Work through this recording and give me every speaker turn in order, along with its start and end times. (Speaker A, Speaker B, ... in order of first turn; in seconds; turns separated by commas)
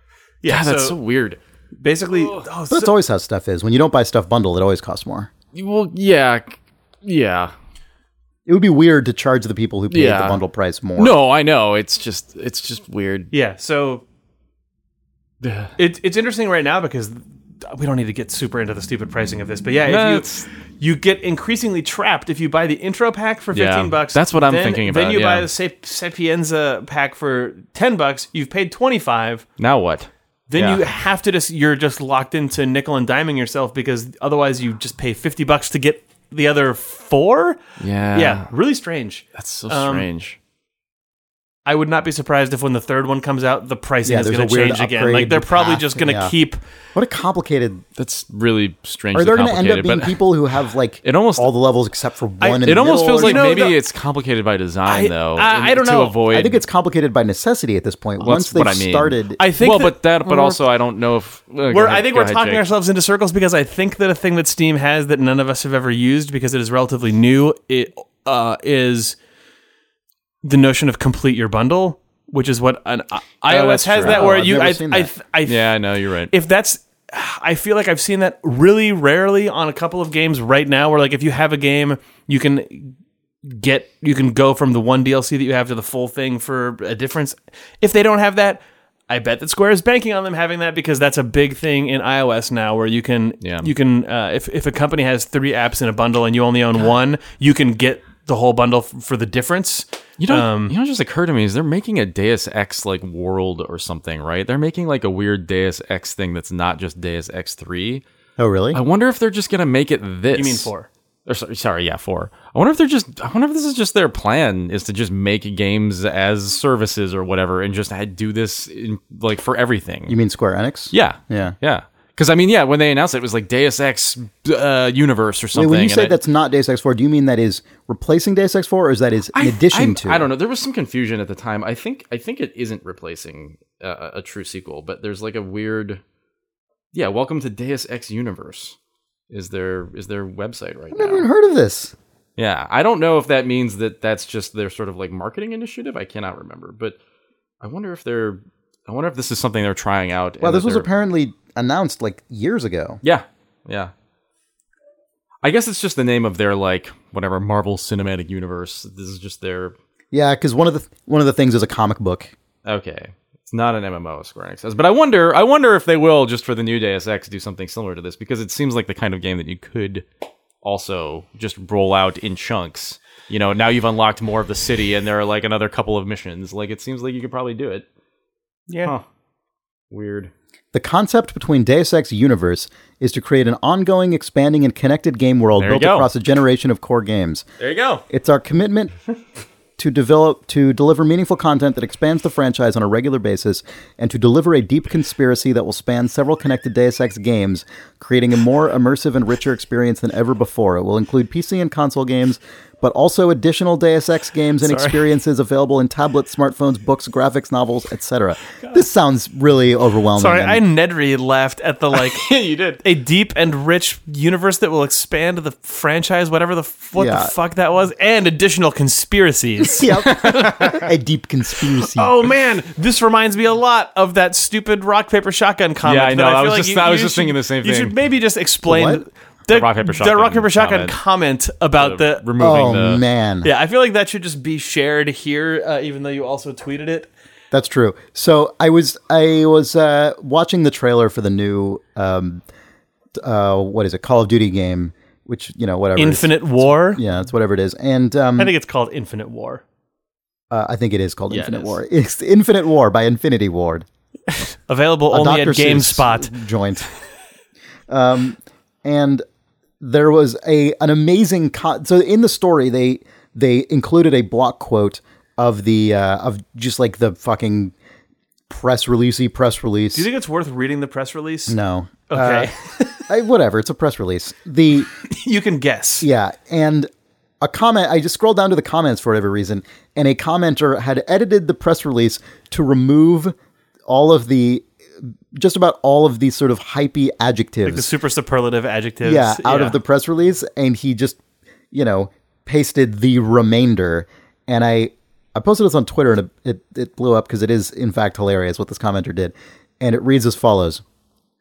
Speaker A: 0.4-1.0, Speaker B: 0.5-1.4, Speaker A: 1.8-2.9, Speaker B: 2.1-2.4, Speaker C: 2.7-5.3, Speaker B: 5.5-7.5, Speaker C: 8.5-11.1, Speaker B: 9.9-10.4, Speaker B: 11.0-13.3, Speaker A: 13.3-14.0, Speaker B: 15.4-15.7, Speaker A: 15.8-29.5, Speaker B: 19.9-20.5, Speaker B: 23.5-25.5, Speaker B: 29.6-30.9, Speaker A: 30.5-37.6, Speaker B: 37.8-38.5, Speaker A: 38.1-40.1, Speaker B: 39.4-40.4, Speaker A: 41.7-46.6, Speaker C: 44.0-46.3, Speaker C: 46.9-47.8, Speaker B: 48.0-50.2, Speaker C: 49.1-53.7, Speaker B: 51.0-51.5, Speaker A: 52.4-53.8, Speaker B: 52.6-56.6, Speaker A: 54.9-56.2, Speaker C: 56.3-59.4, Speaker B: 58.2-62.7, Speaker A: 59.4-60.6, Speaker A: 61.7-69.2, Speaker A: 70.4-100.8, Speaker B: 73.5-74.4, Speaker C: 73.6-75.1, Speaker B: 75.5-76.3, Speaker B: 93.4-93.7, Speaker B: 100.2-108.0, Speaker C: 108.4-108.8, Speaker B: 108.7-110.7, Speaker A: 110.3-110.9, Speaker B: 111.3-120.2, Speaker C: 120.1-121.5, Speaker B: 120.9-126.2, Speaker C: 125.5-130.3, Speaker B: 129.3-136.0, Speaker B: 136.9-138.8, Speaker B: 139.3-141.3, Speaker C: 140.9-141.9, Speaker B: 142.4-147.0, Speaker B: 147.6-150.9, Speaker C: 150.4-153.0, Speaker B: 153.0-153.9, Speaker B: 155.4-159.8, Speaker C: 160.1-162.3, Speaker B: 162.6-170.1, Speaker B: 170.6-177.9, Speaker A: 178.7-178.9, Speaker B: 179.9-180.3, Speaker C: 180.7-187.4, Speaker B: 185.6-186.1, Speaker B: 187.6-188.0, Speaker C: 188.1-188.9, Speaker C: 189.8-210.6, Speaker A: 204.6-205.0, Speaker A: 210.2-220.7, Speaker B: 211.9-212.8, Speaker C: 217.0-217.3, Speaker C: 219.8-222.1, Speaker B: 219.8-220.8, Speaker A: 221.9-232.3, Speaker B: 225.8-227.9, Speaker C: 228.7-229.0, Speaker B: 229.5-231.0, Speaker B: 231.8-233.0, Speaker C: 232.4-233.5, Speaker A: 233.4-237.1, Speaker C: 237.5-242.4, Speaker C: 243.2-248.5, Speaker A: 246.0-247.0, Speaker A: 248.4-249.6, Speaker C: 250.5-253.9, Speaker B: 251.3-251.8, Speaker A: 254.5-256.4, Speaker C: 255.1-256.9, Speaker C: 257.9-259.2, Speaker C: 259.8-267.7, Speaker C: 268.5-270.1, Speaker A: 269.9-271.6, Speaker C: 271.5-272.5, Speaker A: 272.1-273.1, Speaker C: 273.1-274.9, Speaker A: 275.1-276.1, Speaker C: 276.0-276.9, Speaker C: 277.4-283.4, Speaker C: 283.9-284.7, Speaker C: 285.3-287.9, Speaker A: 287.7-289.8, Speaker C: 289.0-291.2, Speaker C: 291.7-300.8